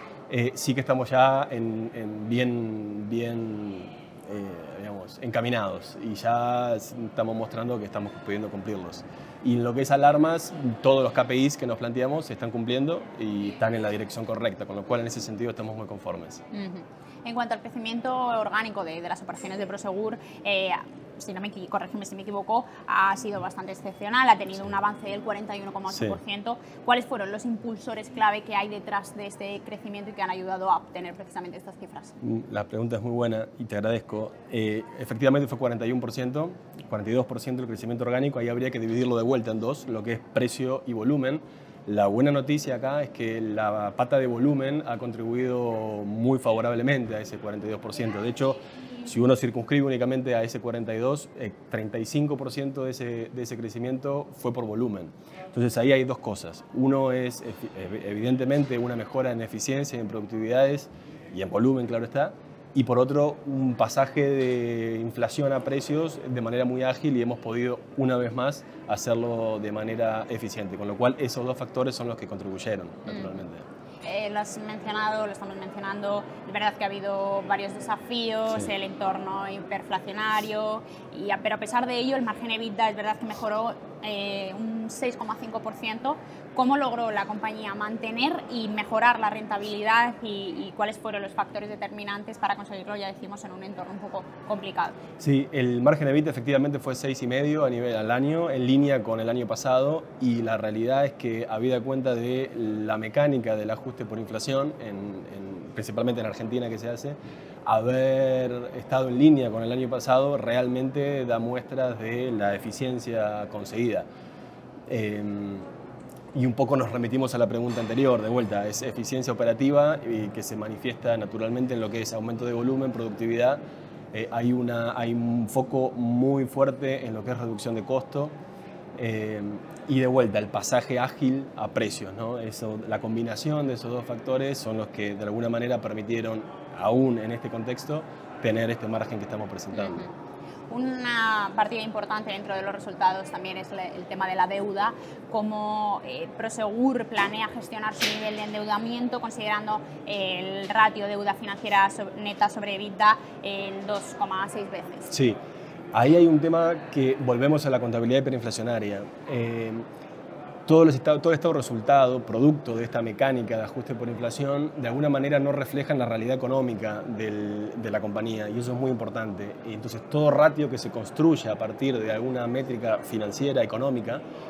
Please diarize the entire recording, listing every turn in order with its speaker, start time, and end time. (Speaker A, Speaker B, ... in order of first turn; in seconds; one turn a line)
Speaker A: 0.3-16.4
Speaker B: 16.5-32.1
Speaker A: 25.9-26.2
Speaker A: 32.2-73.7
Speaker B: 74.0-95.0
Speaker A: 95.2-114.1
Speaker A: 114.9-115.7
Speaker A: 116.3-123.6
Speaker A: 124.1-128.3
Speaker A: 128.9-140.0
Speaker B: 139.7-140.1
Speaker B: 140.7-155.1
Speaker A: 155.1-155.4
Speaker A: 155.9-159.8
Speaker A: 160.7-174.2